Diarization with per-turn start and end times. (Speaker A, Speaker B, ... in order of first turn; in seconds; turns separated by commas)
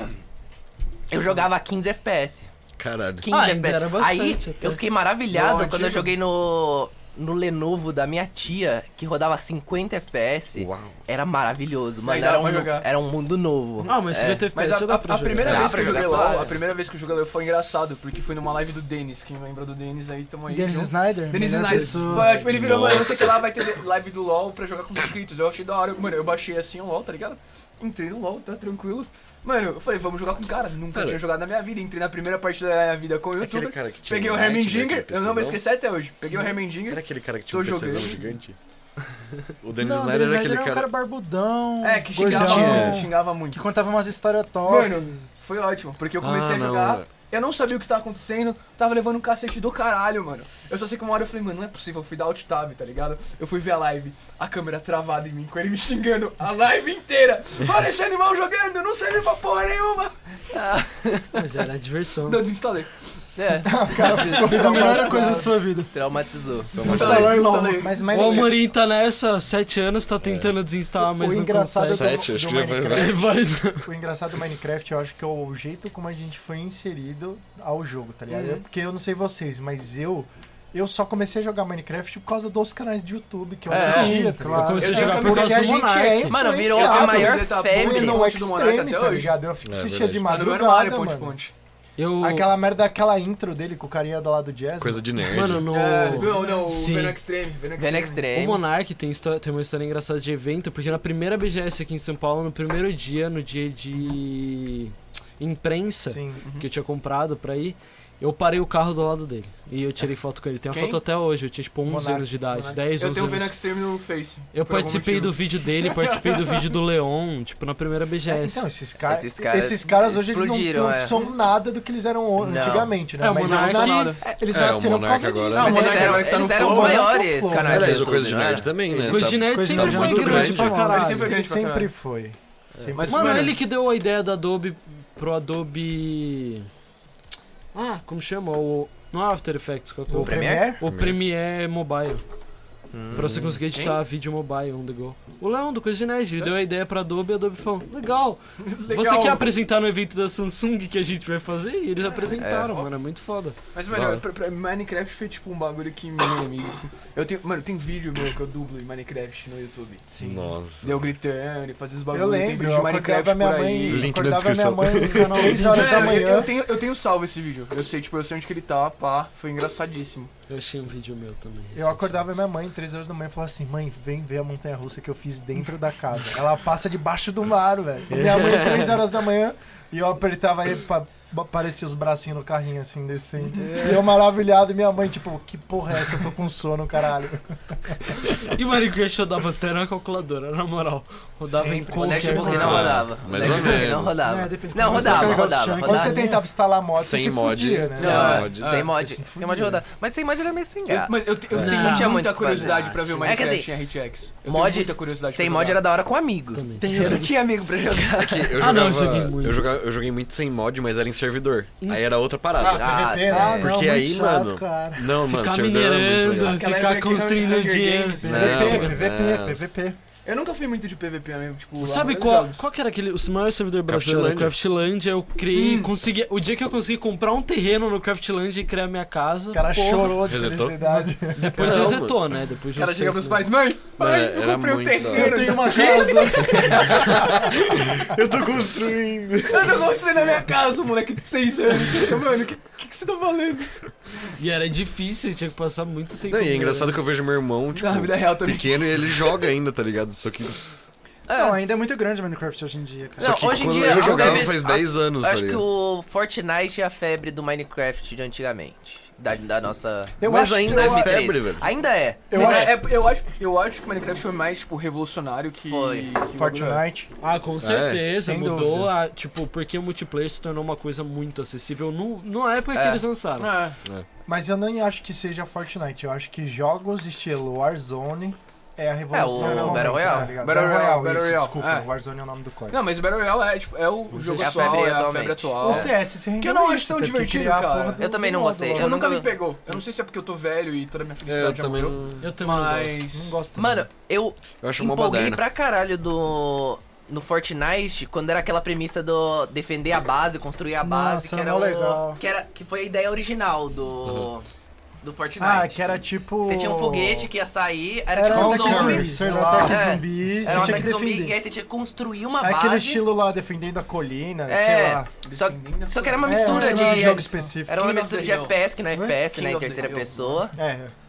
Speaker A: 1.1-2.5, Speaker B: 2.8-3.3, Speaker A: 3.2-14.5, Speaker C: 3.3-4.8, Speaker D: 5.3-6.1, Speaker B: 10.5-11.0, Speaker D: 12.1-12.9, Speaker D: 13.8-38.3, Speaker C: 13.8-15.9, Speaker A: 15.4-16.6, Speaker B: 15.5-16.3, Speaker E: 20.5-22.5, Speaker B: 22.5-23.7, Speaker B: 30.9-31.2, Speaker B: 33.4-35.6, Speaker B: 36.9-38.6, Speaker B: 39.6-40.9, Speaker E: 39.8-45.2, Speaker D: 41.8-43.7, Speaker B: 42.3-43.1, Speaker D: 44.6-60.2, Speaker B: 46.2-47.2, Speaker A: 60.5-61.4, Speaker C: 61.3-62.5, Speaker D: 62.2-63.1, Speaker A: 63.4-67.0, Speaker F: 63.6-65.5, Speaker D: 64.0-65.5, Speaker E: 64.3-65.9, Speaker E: 66.7-67.8, Speaker B: 66.8-67.6, Speaker D: 66.8-68.5, Speaker F: 67.8-68.6, Speaker C: 68.1-72.1, Speaker B: 70.2-70.6, Speaker F: 71.0-91.4, Speaker B: 71.8-73.2, Speaker C: 72.9-73.9, Speaker A: 78.3-78.6, Speaker A: 83.7-84.2, Speaker E: 83.7-85.1, Speaker D: 83.7-84.2, Speaker C: 84.5-86.4, Speaker D: 84.8-85.8, Speaker A: 86.3-88.2, Speaker D: 86.6-89.4, Speaker B: 89.6-90.4, Speaker D: 90.3-91.5, Speaker C: 92.0-92.5, Speaker F: 92.2-95.1, Speaker B: 94.8-96.2, Speaker C: 95.2-97.2, Speaker D: 95.7-98.3, Speaker A: 97.8-98.6, Speaker C: 98.3-113.6, Speaker F: 106.0-106.4, Speaker D: 106.4-106.7, Speaker D: 110.7-111.0, Speaker F: 111.9-112.4, Speaker D: 112.6-116.7, Speaker C: 114.5-118.7, Speaker F: 118.3-129.4, Speaker A: 119.1-121.1, Speaker A: 122.4-123.0, Speaker C: 123.2-124.2, Speaker E: 123.4-123.8, Speaker D: 123.5-124.2, Speaker B: 124.5-125.9, Speaker D: 125.5-127.1, Speaker A: 125.5-128.7, Speaker B: 127.6-130.9, Speaker C: 129.1-131.3, Speaker E: 129.5-131.4, Speaker D: 130.8-131.9, Speaker F: 131.2-133.6, Speaker D: 132.9-133.6, Speaker C: 133.0-136.7, Speaker C: 137.7-142.2, Speaker F: 140.1-140.8, Speaker A: 140.1-140.8, Speaker B: 140.8-141.2, Speaker A: 142.9-144.0, Speaker C: 143.1-153.6, Speaker B: 143.1-143.6, Speaker D: 148.6-149.5, Speaker D: 152.0-152.8, Speaker A: 152.4-152.8, Speaker D: 153.7-160.1, Speaker B: 153.9-154.2, Speaker F: 160.1-160.6, Speaker B: 160.2-161.1, Speaker D: 160.8-164.2, Speaker F: 162.1-166.6, Speaker B: 163.9-165.6, Speaker E: 165.1-166.3, Speaker D: 165.6-170.3, Speaker C: 170.5-172.2, Speaker F: 171.7-188.0, Speaker C: 188.4-193.0, Speaker F: 191.4-192.7, Speaker A: 191.9-196.3, Speaker B: 192.5-194.2, Speaker E: 194.2-196.4, Speaker F: 195.1-199.8, Speaker B: 196.9-198.8, Speaker A: 198.0-203.7, Speaker D: 198.0-198.9, Speaker D: 200.9-205.8, Speaker C: 201.6-202.3, Speaker A: 204.4-208.6, Speaker C: 206.6-207.4, Speaker E: 206.8-207.3, Speaker B: 208.1-216.7, Speaker C: 208.6-209.7, Speaker F: 212.6-215.0, Speaker A: 212.7-213.6, Speaker E: 213.3-214.8, Speaker C: 215.2-218.9, Speaker D: 216.5-218.9, Speaker F: 218.2-220.0, Speaker B: 218.2-219.7, Speaker D: 220.2-222.6, Speaker C: 221.8-230.2, Speaker B: 223.9-224.6, Speaker D: 225.5-225.9, Speaker F: 229.5-231.7, Speaker B: 230.2-230.8, Speaker C: 231.4-233.5, Speaker B: 231.5-232.3, Speaker D: 231.6-231.9, Speaker D: 232.7-237.3, Speaker B: 233.9-235.8, Speaker E: 235.1-236.8, Speaker C: 235.6-237.3, Speaker B: 236.3-240.4, Speaker D: 239.5-243.8, Speaker C: 244.4-247.1, Speaker B: 246.3-250.6, Speaker D: 247.8-249.5, Speaker A: 251.3-251.6, Speaker E: 251.3-254.1, Speaker B: 253.2-255.7, Speaker A: 253.2-262.8, Speaker D: 254.0-254.4, Speaker F: 260.2-261.2, Speaker B: 260.2-261.7, Speaker F: 262.3-262.8, Speaker D: 262.3-266.8, Speaker A: 265.7-266.1, Speaker F: 266.4-267.1, Speaker C: 267.2-273.6, Speaker B: 267.6-268.2, Speaker F: 268.2-268.9, Speaker A: 272.7-273.0, Speaker D: 273.4-273.8, Speaker F: 274.3-282.9, Speaker A: 279.1-280.3, Speaker D: 279.3-281.9, Speaker D: 282.7-288.1, Speaker C: 284.1-284.6, Speaker A: 284.4-285.9, Speaker F: 285.6-289.0, Speaker A: 288.0-289.4, Speaker D: 288.7-293.4, Speaker B: 291.2-292.3, Speaker C: 292.2-293.1, Speaker F: 293.0-293.9, Speaker A: 293.6-304.5, Speaker B: 294.6-295.4, Speaker E: 300.8-302.2, Speaker B: 304.1-304.3, Speaker A: 305.0-305.9, Speaker F: 305.4-307.3, Speaker A: 306.4-313.1, Speaker E: 308.2-311.4, Speaker F: 308.2-311.0, Speaker F: 312.4-315.1, Speaker A: 314.5-320.6, Speaker D: 315.2-317.2, Speaker F: 316.2-317.9, Speaker E: 316.3-317.5, Speaker D: 317.8-318.6, Speaker E: 318.9-319.2, Speaker D: 319.3-320.5, Speaker F: 320.5-320.9